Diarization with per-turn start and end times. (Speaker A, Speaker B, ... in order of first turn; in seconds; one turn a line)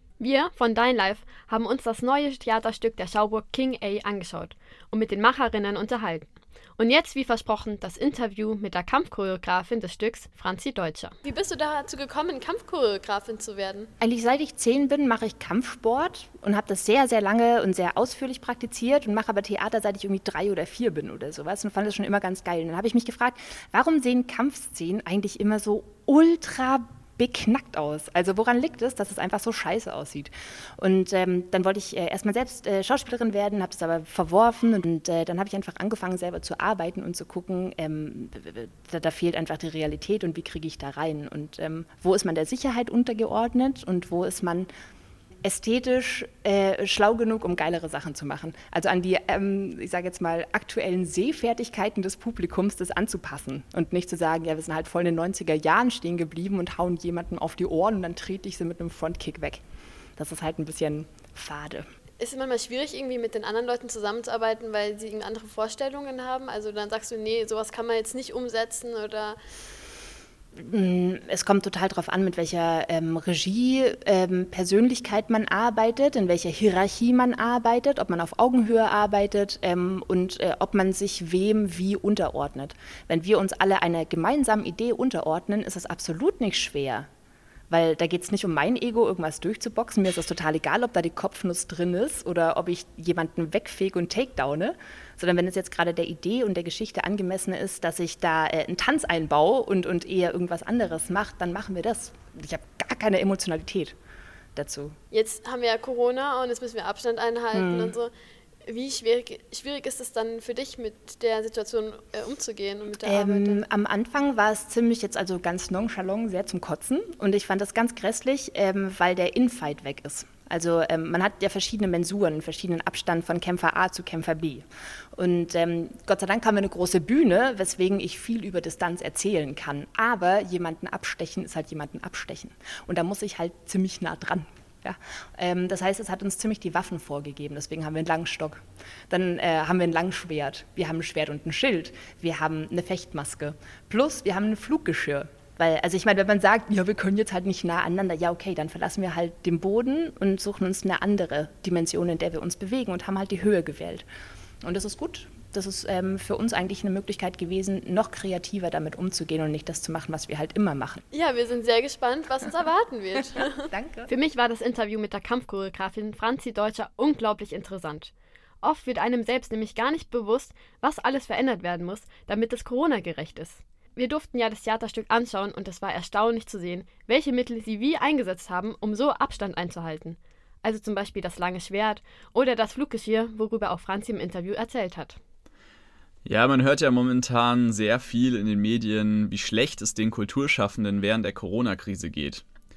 Speaker A: 0.2-11.1
Speaker B: 11.2-13.9
Speaker C: 14.0-44.7
Speaker C: 45.4-59.6
Speaker C: 60.2-61.9
Speaker B: 62.2-69.4
Speaker C: 70.5-87.1
Speaker C: 87.7-103.9
Speaker C: 104.5-105.0
Speaker B: 105.1-108.1
Speaker C: 107.5-108.0
Speaker B: 108.7-113.6
Speaker C: 113.0-154.1
Speaker C: 154.6-161.0
Speaker B: 161.1-163.7
Speaker C: 163.7-164.1
Speaker A: 164.1-185.2
Speaker D: 186.2-192.4